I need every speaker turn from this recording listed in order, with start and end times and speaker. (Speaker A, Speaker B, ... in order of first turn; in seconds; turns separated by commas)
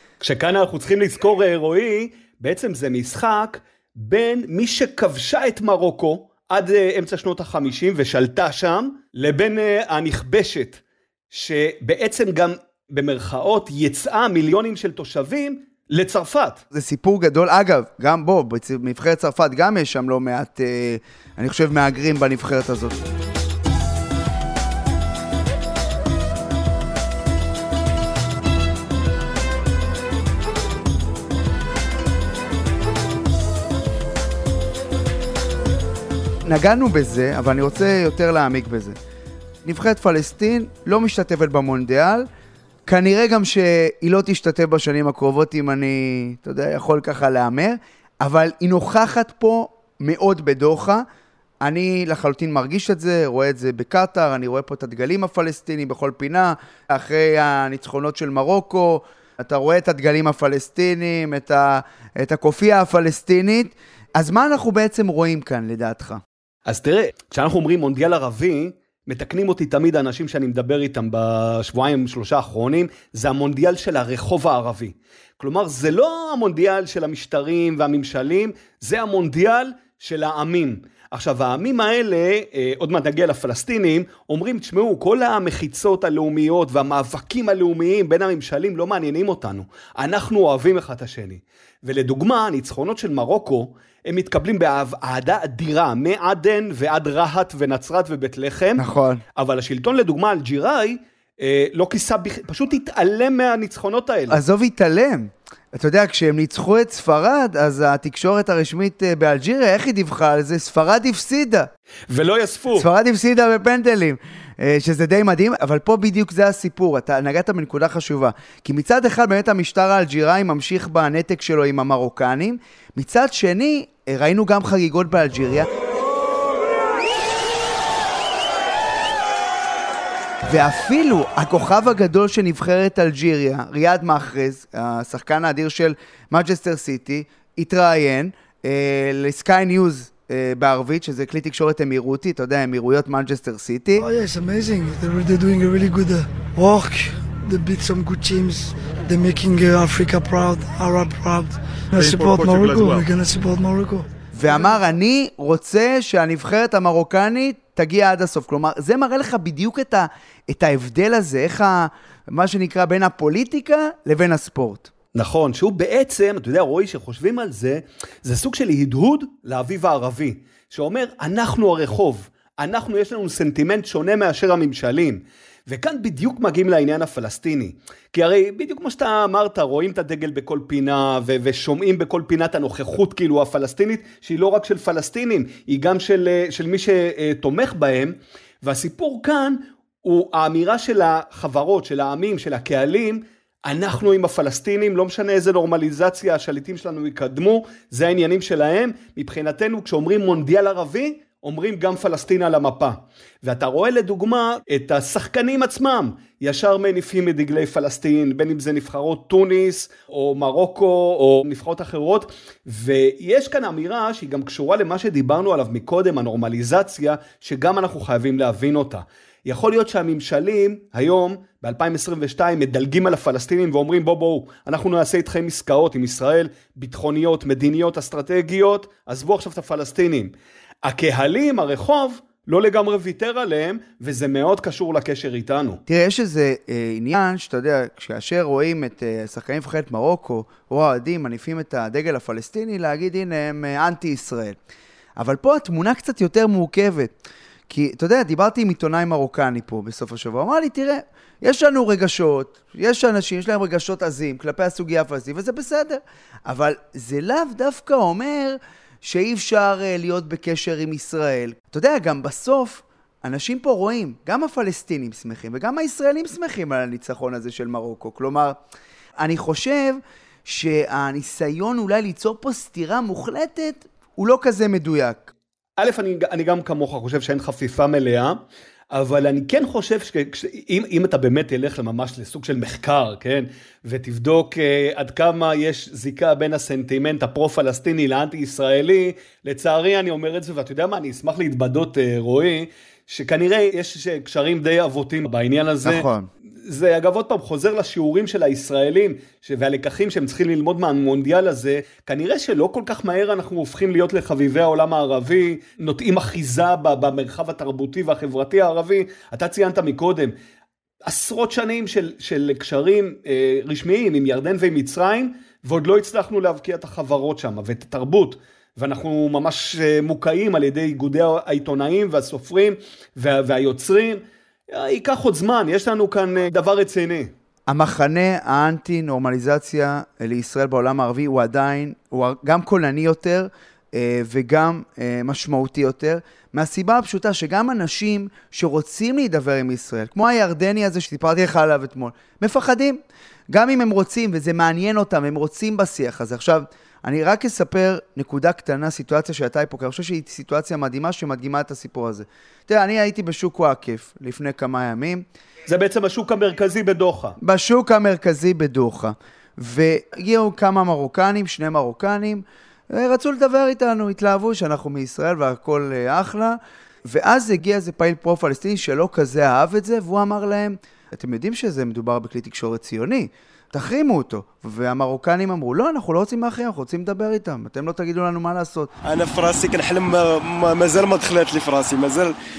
Speaker A: 0.2-16.6, Speaker B: 16.7-23.0, Speaker B: 36.5-39.0, Speaker B: 39.6-42.3, Speaker B: 42.9-51.0, Speaker B: 51.6-66.2, Speaker A: 66.7-98.8, Speaker B: 98.8-99.2, Speaker A: 99.4-104.4, Speaker B: 104.3-111.7, Speaker A: 112.1-112.9, Speaker B: 112.8-125.7, Speaker B: 130.5-144.1, Speaker C: 144.0-154.1, Speaker D: 152.0-153.0, Speaker B: 154.3-164.9, Speaker A: 165.2-230.3, Speaker A: 230.8-235.8, Speaker B: 235.9-244.6, Speaker B: 245.2-247.2, Speaker B: 247.7-268.6, Speaker B: 269.2-275.3, Speaker A: 275.8-278.4, Speaker A: 278.9-296.1, Speaker B: 295.8-296.3, Speaker A: 296.7-310.3, Speaker A: 311.1-327.3, Speaker B: 327.7-355.3, Speaker A: 355.7-357.4, Speaker B: 357.4-378.9, Speaker D: 379.0-382.4